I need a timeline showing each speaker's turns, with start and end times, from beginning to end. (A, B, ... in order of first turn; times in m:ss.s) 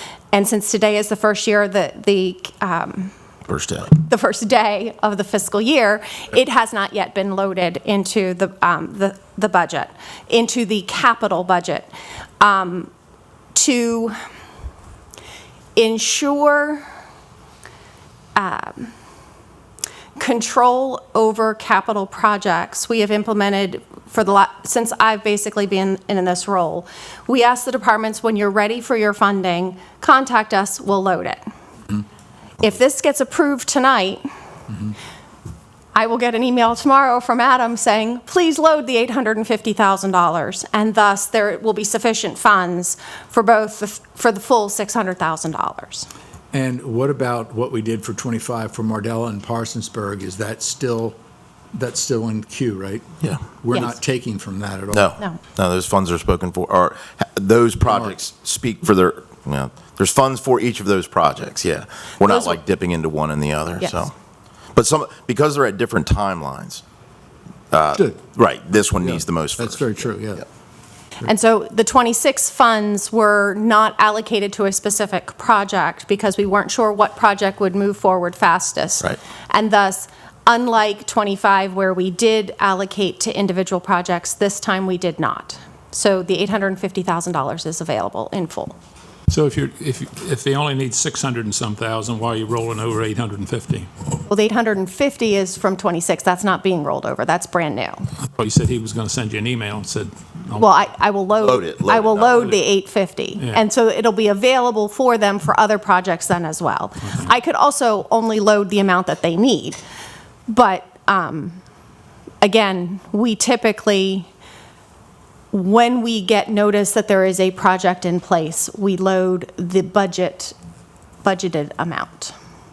0:00.3-0:03.1 A
0:03.5-0:03.9 B
0:04.0-0:12.9 A
0:13.5-0:14.1 A
0:15.8-0:16.8 A
0:18.3-0:18.9 A
0:20.2-0:31.4 A
0:32.6-0:34.2 A
0:35.9-0:46.1 A
0:46.5-0:51.2 C
0:51.7-0:55.1 C
0:54.9-1:04.1 B
0:57.8-0:58.2 C
1:02.2-1:02.6 A
1:04.7-1:06.8 B
1:07.7-1:10.1 B
1:07.9-1:08.3 C
1:09.0-1:10.4 C
1:11.2-1:28.8 A
1:29.3-1:33.9 D
1:34.3-1:38.0 A
1:38.4-1:40.8 D
1:40.6-1:49.8 A
1:41.4-1:42.5 B
1:50.5-1:51.6 A
1:52.4-1:54.3 A
1:55.5-2:00.5 A
2:01.2-2:02.3 A